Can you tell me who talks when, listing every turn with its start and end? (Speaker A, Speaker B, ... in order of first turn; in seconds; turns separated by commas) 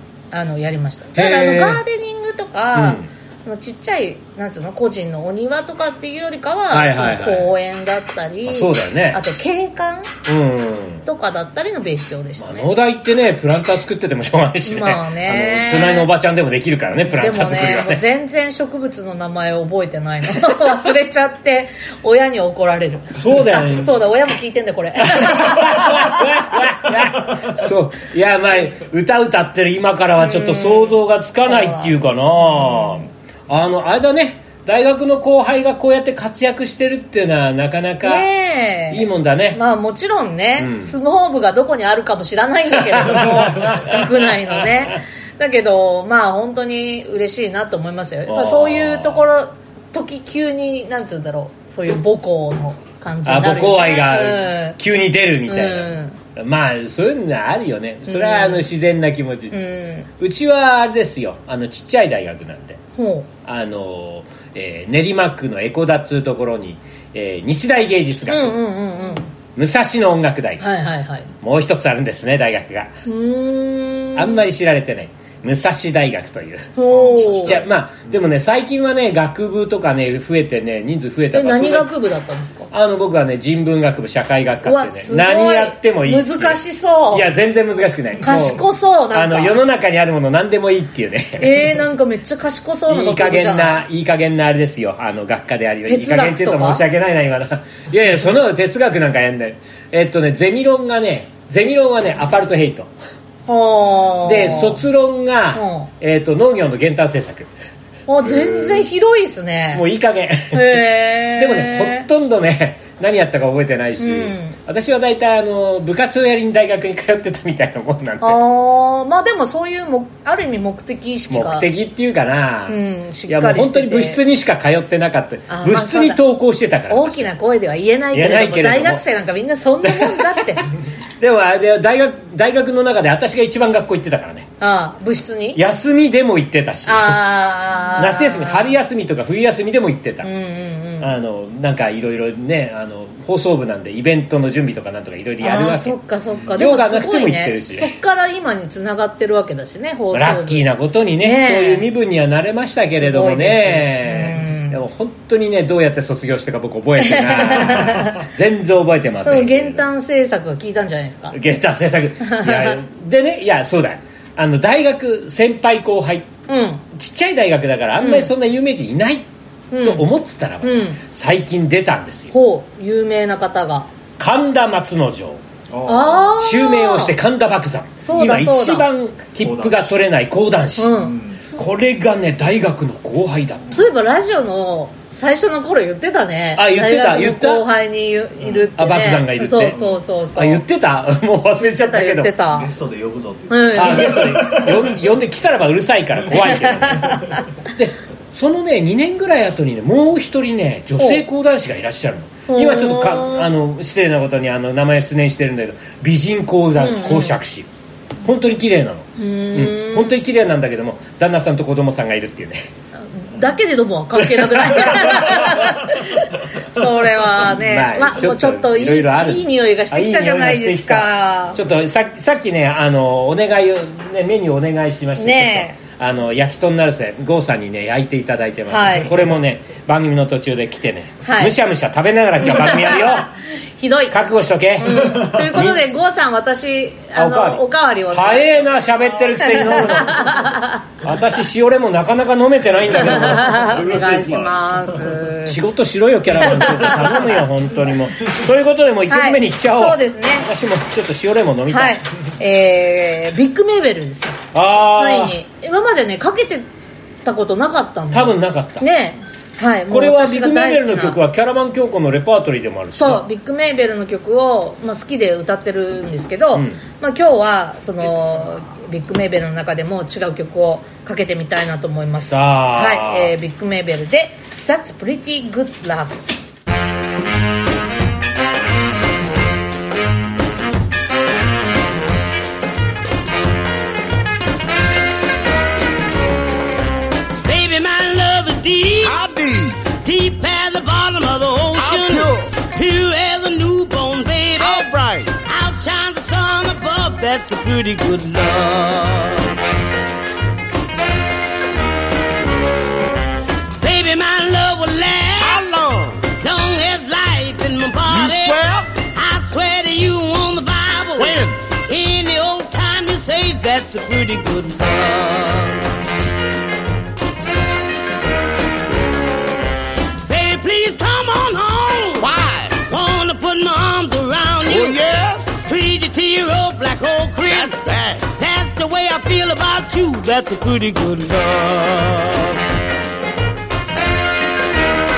Speaker A: 0.3-10.1, Speaker B: 1.1-1.8, Speaker B: 2.7-3.1, Speaker B: 6.7-7.5, Speaker B: 8.4-9.2, Speaker B: 10.2-11.0, Speaker A: 11.1-12.7, Speaker B: 12.4-18.0, Speaker A: 14.6-16.1, Speaker A: 17.1-26.9, Speaker B: 23.1-24.1, Speaker B: 25.0-38.3, Speaker A: 30.2-33.1, Speaker A: 38.0-54.8, Speaker B: 38.9-39.6, Speaker B: 40.6-40.9, Speaker B: 42.7-44.9, Speaker B: 48.2-49.2, Speaker B: 53.2-59.6, Speaker A: 55.5-56.2, Speaker A: 58.1-58.7, Speaker A: 59.5-60.1, Speaker B: 60.2-62.8, Speaker A: 63.0-63.3, Speaker B: 63.4-68.6, Speaker A: 68.3-69.3, Speaker B: 69.5-70.6, Speaker A: 70.6-71.3, Speaker B: 71.4-72.9, Speaker A: 73.0-74.4, Speaker B: 74.1-81.9, Speaker A: 76.8-77.6, Speaker C: 77.1-77.6, Speaker A: 81.3-82.7, Speaker B: 82.7-86.6, Speaker A: 84.6-87.3, Speaker B: 87.1-91.6, Speaker A: 88.2-89.6, Speaker A: 91.4-93.8, Speaker B: 92.9-102.9, Speaker A: 95.8-96.8, Speaker A: 103.5-104.8, Speaker B: 104.2-107.5, Speaker A: 105.5-105.9, Speaker A: 108.1-109.8, Speaker B: 108.2-108.9, Speaker B: 109.7-110.8, Speaker A: 110.5-112.1, Speaker B: 111.4-118.4, Speaker A: 114.0-114.5, Speaker A: 118.2-121.7, Speaker B: 121.3-127.3, Speaker A: 122.7-124.2, Speaker A: 125.5-126.2, Speaker A: 126.9-130.7, Speaker B: 128.1-129.0, Speaker B: 129.8-130.5, Speaker B: 131.2-134.5, Speaker A: 134.6-135.6, Speaker B: 135.5-137.2, Speaker A: 136.8-138.8, Speaker B: 137.9-140.3, Speaker A: 140.2-141.2, Speaker B: 141.0-146.0, Speaker A: 145.4-150.6, Speaker B: 146.5-147.9, Speaker B: 150.1-159.8, Speaker A: 151.2-151.9, Speaker A: 152.9-154.8, Speaker A: 157.0-158.2, Speaker A: 159.2-161.4, Speaker B: 161.3-166.3, Speaker A: 162.2-162.8, Speaker A: 166.5-166.8, Speaker B: 166.9-169.3, Speaker A: 168.0-168.3, Speaker A: 169.7-170.1, Speaker B: 169.8-172.3, Speaker A: 170.6-171.0, Speaker A: 172.3-173.9, Speaker B: 174.2-175.4, Speaker C: 175.7-176.3, Speaker A: 175.8-177.1, Speaker B: 176.3-181.0, Speaker A: 178.0-178.9, Speaker C: 179.4-180.0, Speaker A: 180.8-181.6, Speaker C: 180.9-181.4, Speaker B: 181.5-183.8, Speaker A: 183.7-190.6, Speaker B: 186.5-187.7, Speaker B: 188.8-189.8, Speaker B: 190.3-192.3, Speaker A: 191.6-192.7, Speaker C: 192.5-195.1, Speaker A: 193.5-194.4, Speaker B: 193.7-207.7, Speaker A: 196.4-197.4, Speaker A: 201.0-201.2, Speaker A: 202.5-203.5, Speaker A: 206.8-207.4, Speaker B: 208.2-212.7, Speaker A: 209.2-210.2, Speaker A: 213.1-221.6, Speaker B: 214.2-215.7, Speaker B: 217.4-233.3, Speaker A: 225.2-225.8, Speaker A: 228.7-229.2, Speaker A: 231.2-231.5, Speaker A: 232.4-234.2, Speaker B: 234.1-235.8, Speaker A: 234.8-238.7, Speaker C: 235.0-235.3, Speaker B: 237.1-243.6, Speaker A: 239.4-240.8, Speaker A: 242.9-245.6, Speaker C: 243.1-245.1, Speaker B: 245.4-252.0, Speaker A: 246.4-247.3, Speaker A: 249.1-250.5, Speaker A: 251.7-256.7, Speaker B: 254.5-255.4, Speaker A: 257.2-261.2, Speaker B: 258.1-258.9, Speaker B: 259.9-263.2, Speaker A: 262.9-276.2, Speaker B: 266.5-266.8, Speaker B: 272.3-273.3, Speaker D: 287.4-289.2, Speaker E: 289.0-289.8, Speaker D: 289.9-294.9, Speaker E: 291.8-292.5, Speaker E: 294.6-295.3, Speaker D: 295.4-299.6, Speaker D: 303.8-305.6, Speaker E: 305.4-306.3, Speaker D: 306.3-315.8, Speaker E: 308.1-308.9, Speaker E: 311.2-311.6, Speaker D: 320.2-322.3, Speaker E: 322.2-322.8, Speaker D: 322.8-332.6, Speaker E: 324.6-325.6, Speaker E: 327.5-328.3